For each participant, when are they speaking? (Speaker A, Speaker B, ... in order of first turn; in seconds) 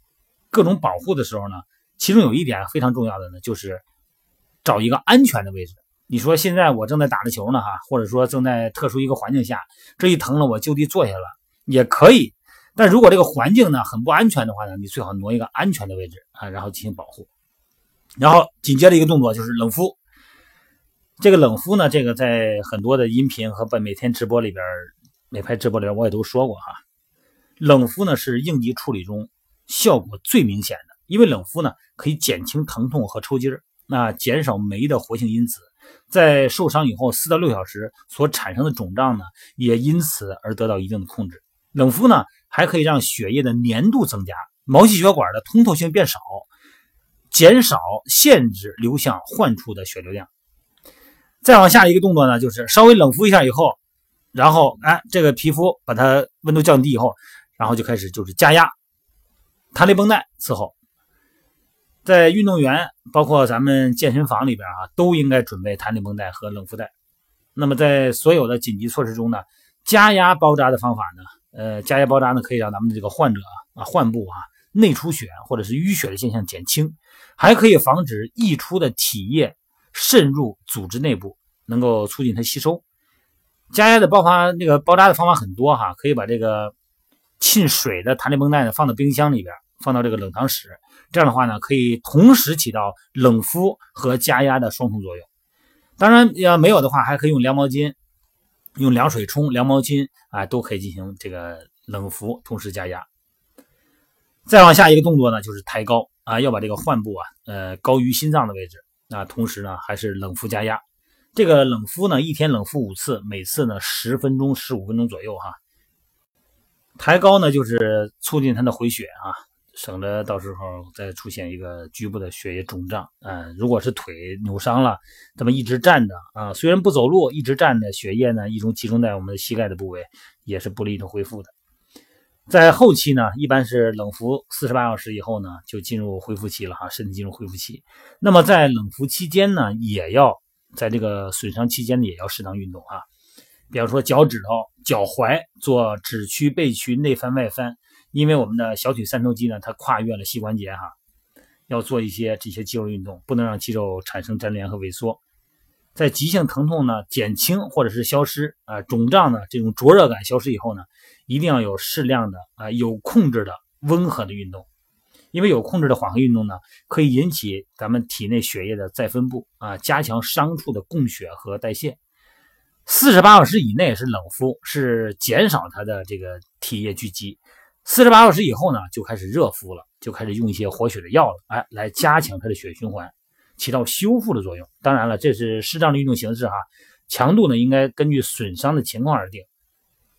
Speaker A: 0.5-3.8, 4.6-17.3, 18.2-20.0, 21.2-26.8, 27.6-46.5, 47.3-50.3, 51.4-53.8, 54.3-58.7, 59.7-60.7, 62.0-66.9, 67.5-82.8, 83.7-86.7, 87.4-95.3, 96.0-98.0, 98.8-103.1, 104.5-110.8, 111.3-115.6, 117.0-131.5, 132.5-143.1, 143.7-150.9, 151.7-155.2, 155.9-164.7, 165.3-172.0, 172.8-189.5